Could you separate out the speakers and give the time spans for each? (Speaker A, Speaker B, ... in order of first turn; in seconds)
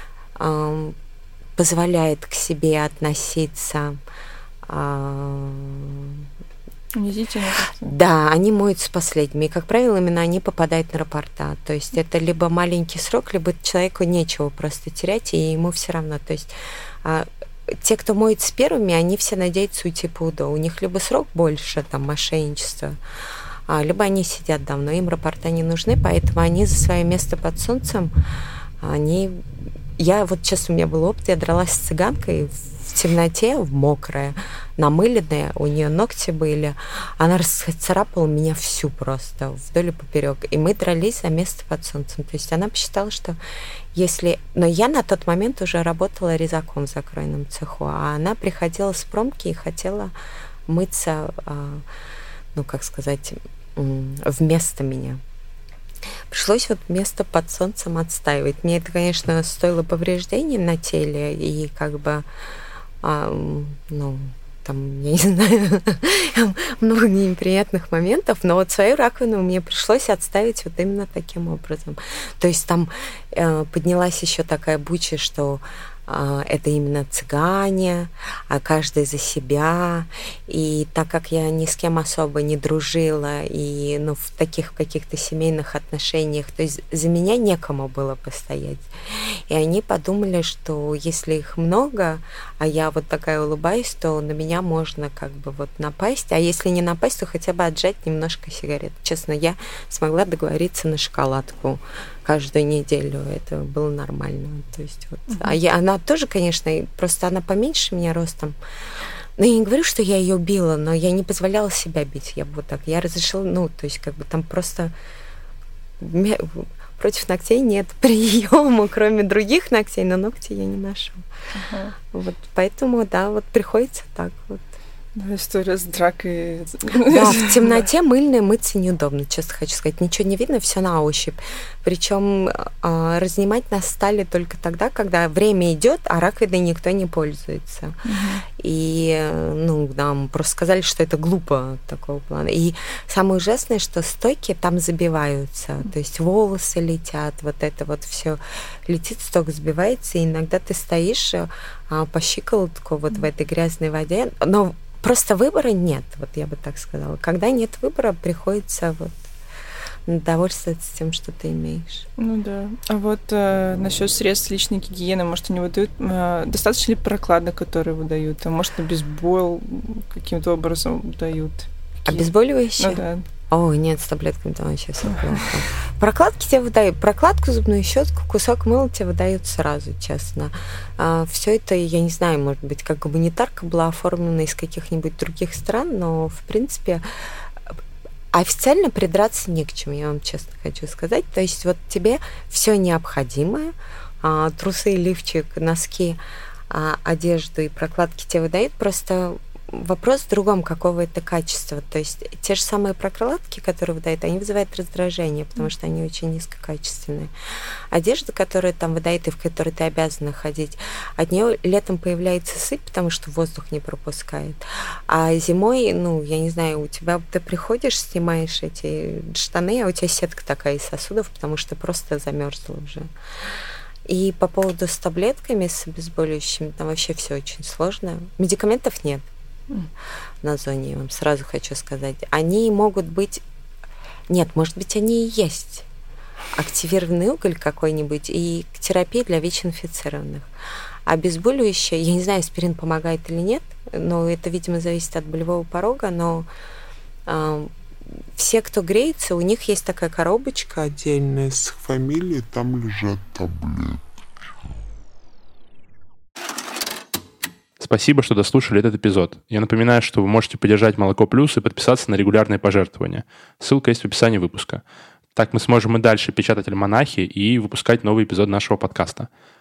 Speaker A: 0.3-0.9, 1.6-4.0, 4.6-6.2, 7.8-23.0, 23.7-28.1, 28.8-43.4, 43.9-50.1, 50.7-51.8, 52.5-55.2, 56.3-62.2, 63.0-108.6, 109.4-114.9, 116.0-121.2, 122.1-124.7, 127.0-159.2, 160.1-162.1, 172.1-187.7, 188.3-196.2, 196.7-207.3, 207.9-223.5, 224.0-229.2, 230.4-233.4, 234.3-235.8, 236.5-240.5, 241.1-246.5, 247.2-247.7, 248.3-250.8
Speaker B: 6.9-7.8, 121.5-121.9, 125.1-127.9, 138.1-138.4, 162.2-173.2, 175.1-175.5
Speaker C: 250.8-254.0
Speaker D: 257.8-264.8, 265.3-269.3